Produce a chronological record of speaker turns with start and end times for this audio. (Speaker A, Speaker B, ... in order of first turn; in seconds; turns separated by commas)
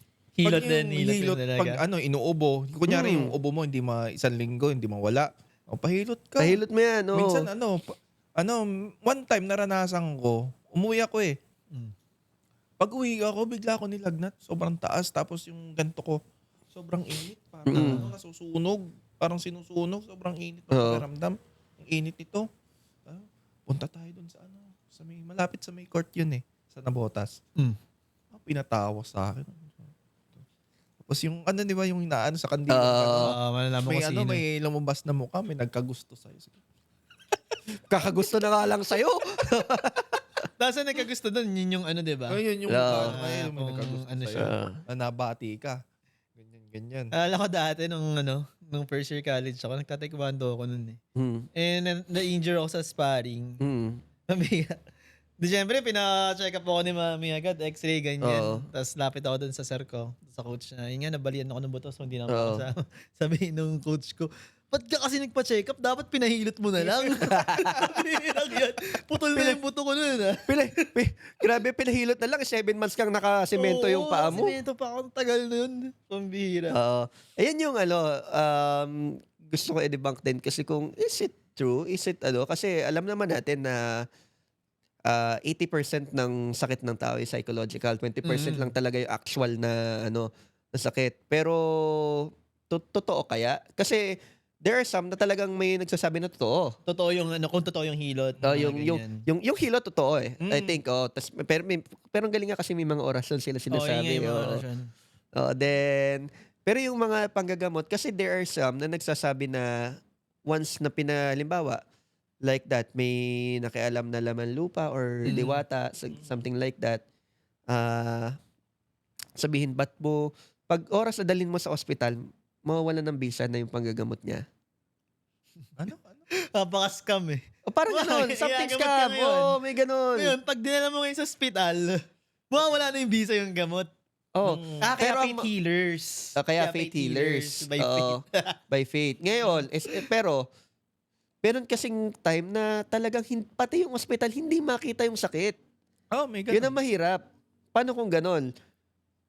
Speaker A: 0.4-1.8, Speaker B: 0.4-6.6, Speaker C: 2.9-3.3, Speaker C: 6.4-7.5, Speaker B: 7.1-11.4, Speaker B: 12.8-16.2, Speaker B: 16.7-22.5, Speaker C: 17.7-18.0, Speaker A: 17.7-18.1, Speaker C: 20.7-21.0, Speaker B: 23.1-27.4, Speaker B: 28.3-29.9, Speaker B: 31.1-36.6, Speaker C: 32.7-33.3, Speaker A: 33.1-34.4, Speaker C: 37.9-40.2, Speaker A: 40.6-42.4, Speaker B: 42.3-45.8, Speaker C: 42.7-43.2, Speaker A: 42.9-44.5, Speaker C: 44.4-44.8, Speaker B: 46.4-47.1, Speaker A: 47.1-51.0, Speaker C: 51.1-51.5, Speaker A: 51.5-53.6, Speaker C: 53.6-54.0, Speaker A: 54.3-54.8, Speaker A: 55.4-70.9, Speaker C: 58.2-58.6, Speaker C: 62.3-62.6, Speaker C: 67.1-68.0, Speaker C: 70.5-74.5, Speaker A: 73.5-76.8, Speaker C: 76.7-84.0, Speaker C: 85.1-96.8, Speaker A: 88.2-88.7, Speaker A: 96.9-99.2, Speaker C: 98.4-104.6, Speaker B: 100.4-100.8, Speaker A: 103.7-104.9, Speaker C: 105.3-109.9, Speaker C: 110.5-111.8, Speaker C: 112.4-117.0, Speaker A: 115.2-115.6, Speaker C: 117.7-118.4, Speaker C: 119.4-124.4, Speaker B: 125.8-126.3, Speaker A: 126.3-129.6, Speaker C: 127.7-130.3, Speaker A: 130.2-132.0, Speaker A: 132.5-133.9, Speaker C: 134.3-135.5, Speaker B: 134.4-134.9, Speaker A: 134.8-138.6, Speaker C: 136.3-140.5, Speaker A: 139.4-140.0, Speaker C: 141.4-145.6, Speaker B: 146.1-146.8, Speaker C: 146.5-147.2, Speaker C: 147.7-148.5